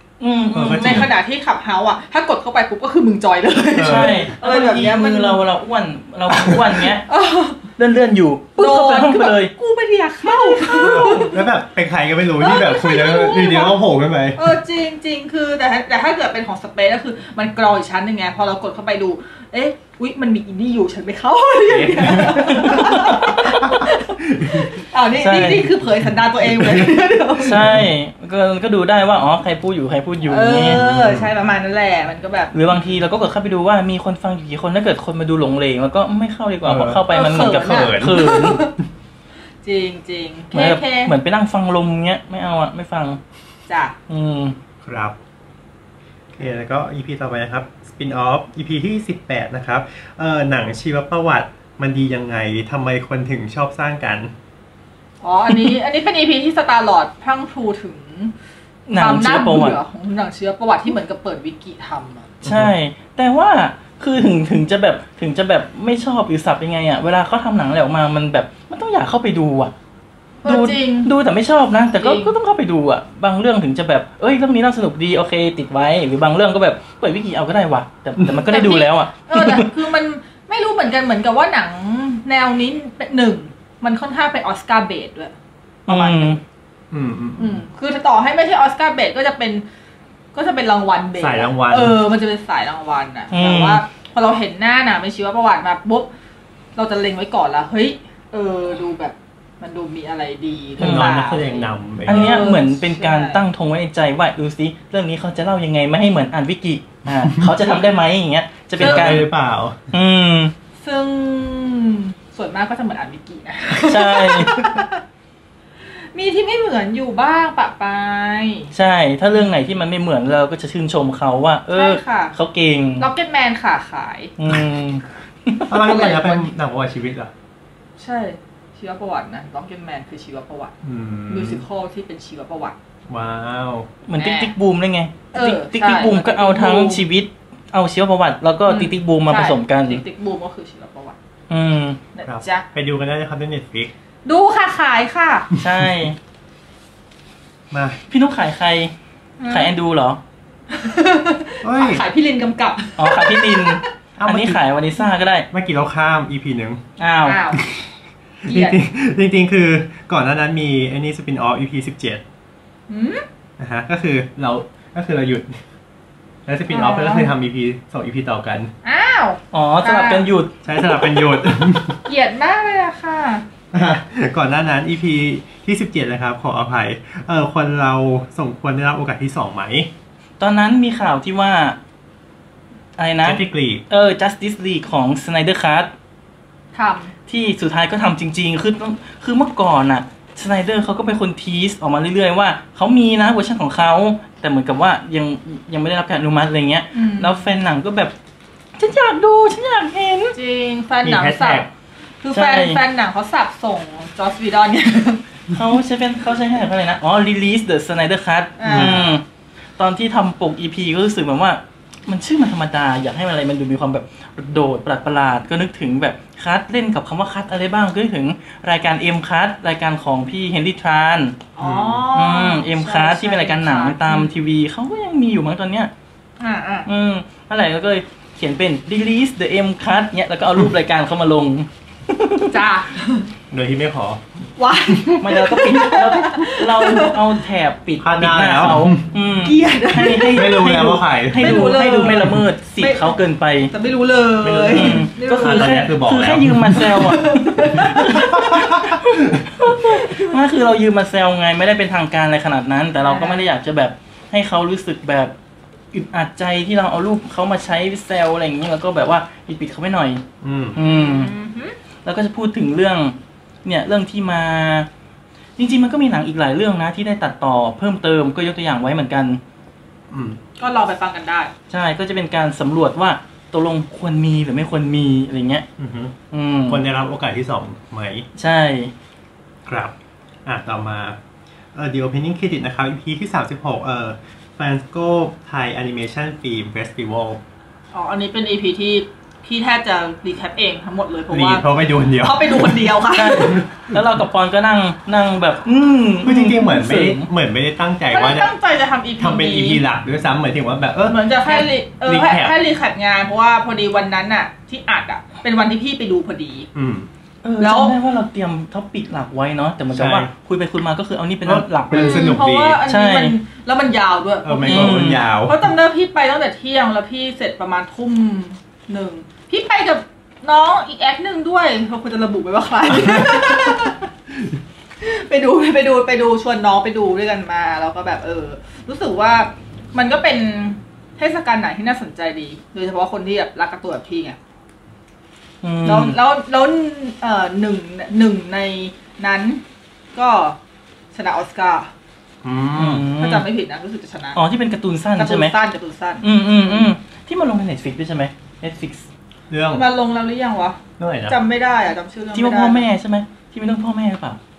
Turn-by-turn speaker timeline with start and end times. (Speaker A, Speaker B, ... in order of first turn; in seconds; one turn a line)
Speaker A: 0.2-1.1
Speaker B: 0.5-1.1
Speaker C: 0.7-5.4
Speaker B: 3.8-4.3
Speaker A: 3.8-7.1
Speaker C: 7.1-7.7
Speaker A: 7.8-9.5
Speaker C: 8.6-11.4
Speaker A: 10.2-11.3
Speaker B: 10.8-14.5
Speaker C: 12.4-13.8
Speaker C: 14.4-27.6
Speaker B: 21.7-22.8
Speaker A: 22.6-23.6
Speaker B: 24.2-24.6
Speaker A: 25.2-25.7
Speaker B: 26.0-27.9
Speaker A: 27.4-30.8
Speaker C: 30.2-32.9
Speaker B: 30.8-31.3
Speaker A: 32.5-38.6
Speaker B: 36.6-38.6
Speaker C: 37.1-38.8
Speaker C: 39.6-41.1
Speaker A: 40.5-43.2
Speaker C: 43.7-44.0
Speaker A: 44.1-44.6
Speaker B: 44.8-45.1
Speaker B: 46.4-54.3
Speaker C: 55.2-58.3
Speaker C: 58.9-62.3
Speaker A: 58.9-59.8
Speaker B: 62.4-62.7
Speaker A: 62.4-69.7
Speaker C: 70.4-71.1
Speaker A: 70.5-79.8
Speaker C: 72.0-72.3
Speaker C: 78.3-85.3
Speaker A: 85.9-86.4
Speaker C: 85.9-86.4
Speaker B: 86.9-87.6
Speaker C: 87.4-89.6
Speaker C: 90.3-96.1
Speaker B: 91.2-92.0
Speaker A: 93.3-93.8
Speaker C: 96.8-103.4
Speaker A: 100.8-101.2
Speaker B: 100.8-102.5
Speaker A: 102.1-109.3
Speaker B: 107.1-107.5
Speaker B: 108.8-109.8
Speaker C: 108.8-109.1
Speaker A: 109.9-110.5
Speaker C: 110.8-115.0
Speaker A: 113.8-114.7
Speaker C: 116.1-118.7
Speaker A: 118.7-123.1
Speaker C: 121.7-122.3
Speaker C: 123.0-124.3
Speaker A: 124.4-125.7
Speaker B: 125.7-127.3
Speaker C: 125.7-126.5
Speaker C: 128.0-130.7
Speaker B: 130.8-131.6
Speaker C: 131.3-132.8
Speaker B: 133.1-133.9
Speaker A: 134.1-140.0
Speaker C: 134.2-134.5
Speaker C: 135.3-137.1
Speaker C: 138.7-141.2
Speaker A: 141.5-142.0
Speaker C: 142.1-142.6
Speaker B: 142.2-143.9
Speaker C: 144.2-145.5
Speaker B: 145.5-145.9
Speaker A: 145.6-146.2
Speaker B: 147.7-148.0
Speaker A: 148.1-148.9
Speaker C: 149.4-149.7
Speaker A: 149.5-150.2
Speaker C: 150.7-153.9
Speaker B: 151.6-152.0
Speaker A: 153.0-155.5
Speaker B: 154.2-154.6
Speaker B: 155.5-156.8
Speaker A: 157.0-157.4
Speaker C: 157.2-157.7
Speaker C: 158.4-158.8
Speaker B: 158.5-162.2
Speaker C: 162.9-163.2
Speaker B: 163.6-165.6
Speaker B: 166.5-168.7
Speaker C: 166.7-167.3
Speaker C: 168.8-170.3
Speaker A: 169.5-171.0
Speaker B: 170.6-172.0
Speaker C: 172.1-173.5
Speaker B: 173.7-179.9
Speaker A: 180.4-181.8
Speaker A: 183.0-185.9
Speaker B: 183.2-183.8
Speaker C: 186.8-187.1
Speaker A: 187.3-198.1
Speaker C: 196.9-197.4
Speaker A: 198.8-200.4
Speaker C: 200.3-201.7
Speaker B: 201.0-201.7
Speaker C: 202.2-205.2
Speaker A: 202.3-202.8
Speaker A: 205.5-209.2
Speaker C: 208.6-209.1
Speaker B: 208.7-209.1
Speaker A: 209.8-221.4
Speaker C: 221.6-224.3
Speaker B: 221.6-222.1
Speaker A: 222.1-225.9
Speaker C: 226.4-226.9
Speaker A: 226.9-232.6
Speaker C: 232.5-233.3
Speaker B: 233.5-234.2
Speaker C: 234.6-237.2
Speaker A: 235.2-243.7
Speaker B: 238.0-239.1
Speaker C: 239.4-243.2
Speaker B: 240.3-241.5
Speaker C: 243.7-245.9
Speaker B: 244.4-247.1
Speaker A: 244.7-255.3
Speaker C: 246.8-248.7
Speaker B: 247.9-249.5
Speaker C: 249.7-250.4
Speaker C: 253.0-253.5
Speaker A: 255.9-260.2
Speaker B: 260.4-260.8
Speaker A: 260.8-261.3
Speaker C: 260.8-261.8
Speaker A: 262.1-264.9
Speaker A: 265.6-269.4
Speaker B: 270.1-270.4
Speaker C: 270.6-271.5
Speaker A: 271.7-275.6
Speaker B: 275.8-276.1
Speaker A: 276.3-276.8
Speaker B: 276.7-278.3
Speaker A: 278.4-278.9
Speaker B: 279.6-279.9
Speaker B: 280.5-281.2
Speaker B: 281.8-287.4
Speaker C: 287.9-293.6
Speaker B: 291.3-292.9
Speaker A: 293.1-297.3
Speaker B: 293.5-294.0
Speaker B: 296.2-298.5
Speaker C: 298.1-299.8
Speaker B: 299.2-302.6
Speaker C: 301.1-306.7
Speaker B: 306.8-307.1
Speaker A: 307.4-313.4
Speaker C: 307.6-307.9
Speaker B: 309.9-310.3
Speaker B: 311.4-312.8
Speaker C: 311.9-324.1
Speaker B: 314.4-315.6
Speaker A: 314.6-315.2
Speaker B: 323.1-323.7
Speaker C: 325.0-334.4
Speaker A: 335.6-336.2
Speaker C: 335.9-339.6
Speaker C: 340.1-340.6
Speaker C: 341.1-341.9
Speaker B: 342.4-343.1
Speaker A: 342.8-343.5
Speaker C: 343.2-344.4
Speaker A: 344.4-345.5
Speaker C: 345.2-346.9
Speaker A: 346.2-349.1
Speaker B: 349.5-349.9
Speaker C: 349.7-352.9
Speaker B: 351.0-351.4
Speaker A: 352.3-354.4